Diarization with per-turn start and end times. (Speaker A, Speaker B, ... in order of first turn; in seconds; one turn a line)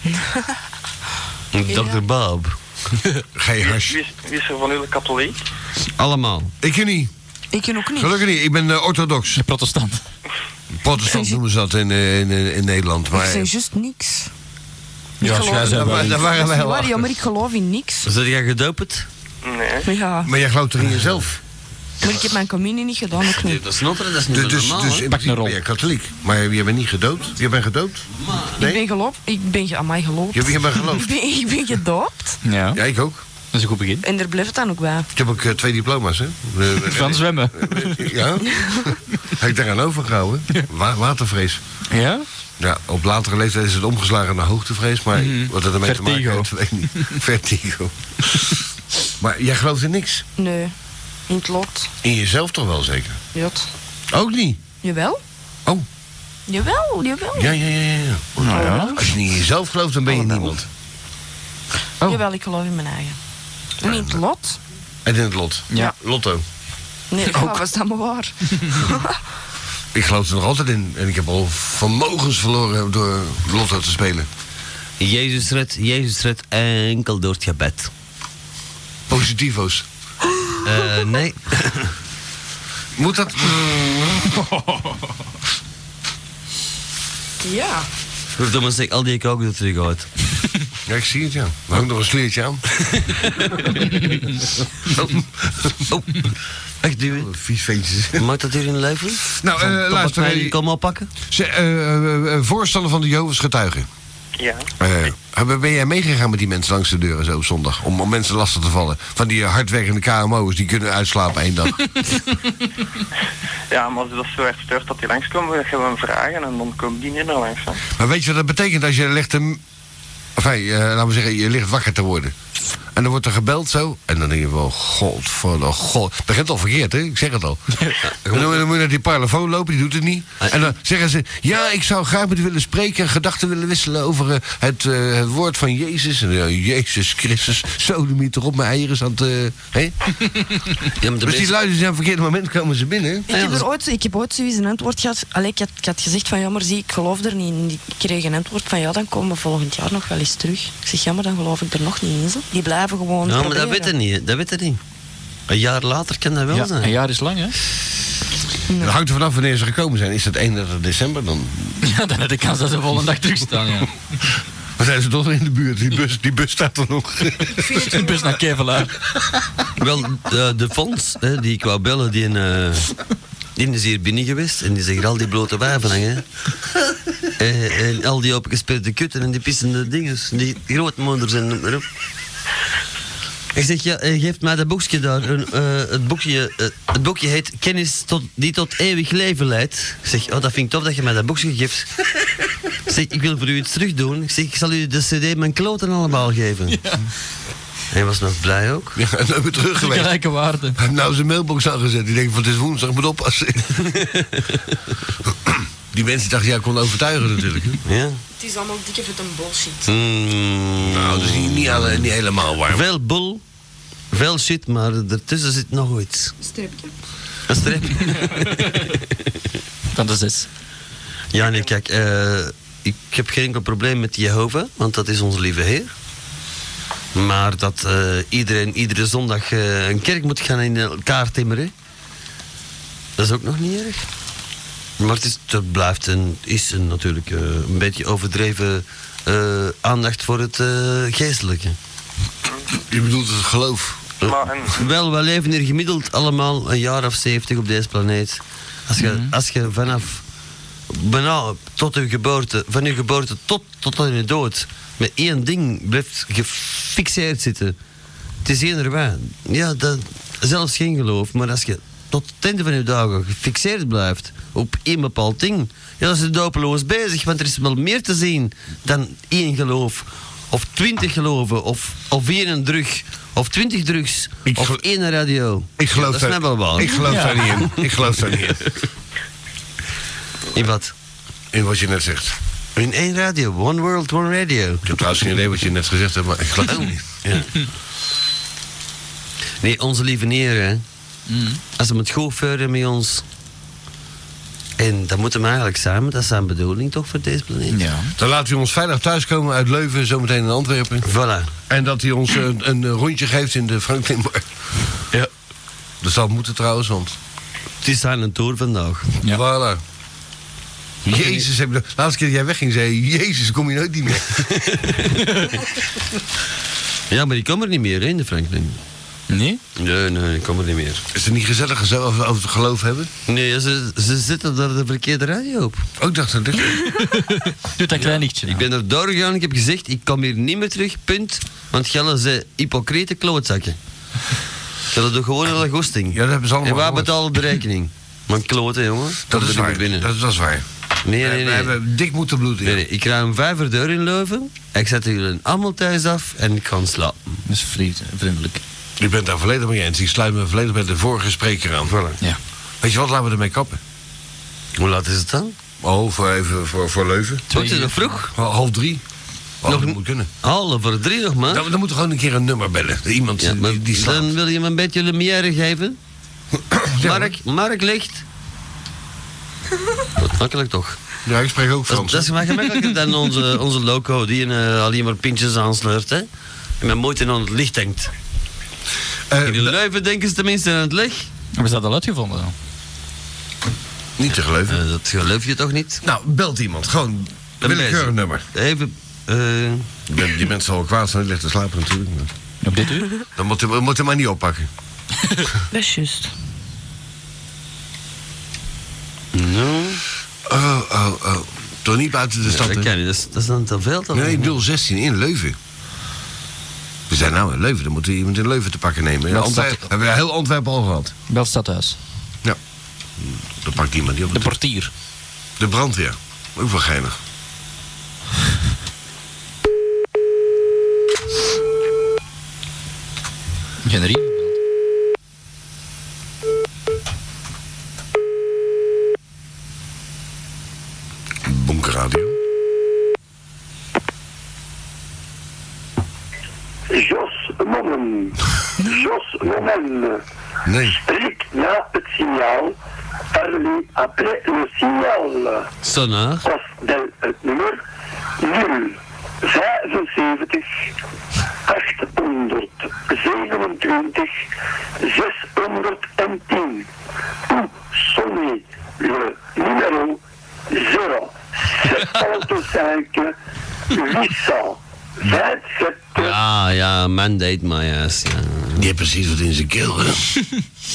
Speaker A: 1.5-2.6
Speaker B: 1.7-2.0
Speaker C: 3.4-4.0
Speaker D: 3.6-5.4
Speaker A: 6.0-6.5
Speaker C: 6.6-7.1
Speaker B: 7.5-8.2
Speaker C: 8.0-9.4
Speaker E: 9.4-10.0
Speaker C: 10.8-13.5
Speaker B: 11.1-11.4
Speaker B: 13.1-14.3
Speaker E: 15.2-16.2
Speaker B: 15.2-18.1
Speaker C: 15.2-17.1
Speaker A: 18.1-19.1
Speaker D: 19.4-19.9
Speaker B: 19.9-20.3
Speaker C: 20.2-21.4
Speaker B: 22.0-23.6
Speaker A: 23.3-25.1
Speaker C: 24.3-28.8
Speaker E: 25.1-25.6
Speaker A: 28.2-28.5
Speaker B: 28.6-32.4
Speaker C: 30.3-31.1
Speaker E: 32.4-32.8
Speaker C: 32.7-33.2
Speaker E: 33.5-34.0
Speaker B: 34.0-35.1
Speaker C: 35.1-41.6
Speaker E: 36.8-38.1
Speaker E: 41.9-42.2
Speaker C: 42.6-48.6
Speaker E: 45.2-46.5
Speaker C: 49.2-50.2
Speaker B: 50.4-50.7
Speaker B: 51.3-51.9
Speaker C: 52.0-53.2
Speaker B: 53.3-53.7
Speaker C: 54.1-54.6
Speaker B: 54.8-55.2
Speaker B: 56.5-57.6
Speaker C: 57.3-60.7
Speaker E: 58.4-59.0
Speaker B: 58.5-59.0
Speaker B: 60.1-60.5
Speaker B: 62.0-63.2
Speaker B: 63.8-64.6
Speaker C: 63.8-64.2
Speaker C: 65.0-66.4
Speaker B: 67.1-69.1
Speaker E: 67.3-67.6
Speaker C: 69.9-74.3
Speaker A: 75.0-77.9
Speaker C: 79.1-79.9
Speaker A: 80.6-81.9
Speaker C: 83.0-84.4
Speaker B: 87.4-87.9
Speaker A: 88.4-90.1
Speaker C: 90.9-92.8
Speaker A: 93.1-93.7
Speaker A: 95.8-97.3
Speaker C: 97.1-98.3
Speaker A: 98.2-101.1
Speaker C: 99.3-100.6
Speaker C: 101.3-103.9
Speaker D: 104.4-104.7
Speaker C: 104.8-111.8
Speaker D: 113.7-117.8
Speaker C: 118.0-119.6
Speaker C: 120.4-122.3
Speaker C: 122.9-139.9
Speaker A: 128.0-128.7
Speaker A: 141.0-141.6
Speaker C: 141.2-143.3
Speaker B: 143.3-153.9
Speaker A: 143.3-143.7
Speaker A: 153.2-154.8
Speaker A: 155.5-157.0
Speaker E: 156.5-157.6
Speaker B: 158.7-158.9
Speaker C: 158.8-161.8
Speaker E: 161.8-163.9
Speaker C: 164.8-168.2
Speaker B: 167.7-168.0
Speaker E: 167.9-168.9
Speaker A: 169.8-172.9
Speaker A: 173.6-176.2
Speaker A: 177.4-181.9
Speaker A: 183.6-191.9
Speaker A: 192.9-196.8
Speaker E: 196.7-197.1
Speaker A: 197.9-199.0
Speaker C: 199.0-200.2
Speaker E: 199.8-200.8
Speaker C: 200.8-203.9
Speaker A: 203.9-204.3
Speaker C: 205.4-207.8
Speaker A: 207.8-208.2
Speaker B: 208.4-209.9
Speaker A: 209.9-212.0
Speaker C: 210.8-212.9
Speaker A: 212.7-213.4
Speaker A: 214.1-216.3
Speaker B: 216.4-216.9
Speaker A: 217.5-219.0
Speaker E: 219.9-220.5
Speaker A: 221.3-225.9
Speaker D: 221.4-221.7
Speaker A: 227.2-231.7
Speaker A: 233.2-234.1
Speaker A: 235.0-241.8
Speaker C: 242.9-244.1
Speaker A: 244.2-250.2
Speaker D: 244.2-244.9
Speaker E: 249.0-249.3
Speaker A: 250.9-257.8
Speaker A: 258.4-277.8
Speaker C: 274.5-274.8
Speaker C: 275.8-278.7
Speaker E: 277.1-277.5
Speaker A: 280.5-280.9
Speaker C: 281.5-282.4
Speaker A: 282.8-284.9
Speaker C: 284.9-287.0
Speaker A: 287.2-287.6
Speaker A: 289.6-290.8
Speaker E: 291.3-291.6
Speaker A: 291.8-293.2
Speaker A: 294.8-297.8
Speaker E: 297.7-298.1
Speaker C: 298.2-301.1
Speaker A: 301.0-301.5
Speaker C: 301.7-304.5
Speaker C: 306.0-307.2
Speaker A: 307.8-309.1
Speaker C: 309.3-309.8
Speaker C: 311.1-314.5
Speaker A: 311.1-311.5
Speaker A: 314.6-315.1
Speaker A: 317.1-318.8
Speaker E: 319.3-319.6
Speaker A: 319.8-321.0
Speaker C: 321.1-323.1
Speaker A: 323.3-325.8
Speaker C: 326.0-326.9
Speaker E: 326.9-328.7
Speaker A: 328.0-333.8
Speaker A: 334.9-340.1
Speaker C: 336.1-337.1
Speaker C: 339.3-340.6
Speaker A: 341.1-341.8
Speaker C: 341.2-342.8
Speaker A: 342.6-347.4
Speaker E: 347.5-348.6
Speaker C: 349.0-351.9
Speaker A: 351.9-352.2
Speaker C: 352.8-353.8
Speaker A: 354.8-355.6
Speaker C: 355.8-357.5
Speaker E: 357.5-358.1
Speaker A: 357.5-358.3
Speaker C: 358.3-359.0
Speaker C: 359.6-360.3
Speaker A: 359.7-361.6
Speaker C: 361.5-364.4
Speaker A: 363.4-366.0
Speaker C: 366.6-367.3
Speaker A: 367.0-368.2
Speaker A: 370.2-371.0
Speaker C: 371.2-372.3
Speaker A: 371.9-376.3
Speaker A: 376.8-378.1
Speaker C: 379.3-379.8
Speaker A: 379.4-381.3
Speaker E: 381.6-382.5
Speaker C: 384.2-384.8
Speaker A: 384.7-386.0
Speaker C: 386.0-388.4
Speaker A: 387.6-390.0
Speaker C: 390.1-392.3
Speaker E: 392.6-393.2
Speaker C: 393.4-394.7
Speaker B: 395.7-396.3
Speaker A: 399.3-400.0
Speaker C: 400.5-402.9
Speaker A: 402.4-404.5
Speaker C: 404.1-405.6
Speaker C: 407.1-411.1
Speaker E: 409.3-409.8
Speaker E: 411.3-412.0
Speaker C: 413.2-414.6
Speaker E: 414.3-414.9
Speaker C: 415.6-417.2
Speaker E: 423.8-424.6
Speaker C: 431.4-432.4
Speaker F: 436.9-440.2
Speaker C: 440.7-441.0
Speaker F: 440.9-442.8
Speaker F: 443.3-445.7
Speaker A: 445.8-446.5
Speaker F: 446.4-447.8
Speaker F: 448.4-450.7
Speaker F: 451.7-454.3
Speaker F: 455.0-456.9
Speaker F: 457.5-460.2
Speaker F: 460.7-463.3
Speaker F: 463.9-466.4
Speaker A: 466.1-468.9
Speaker C: 468.8-470.2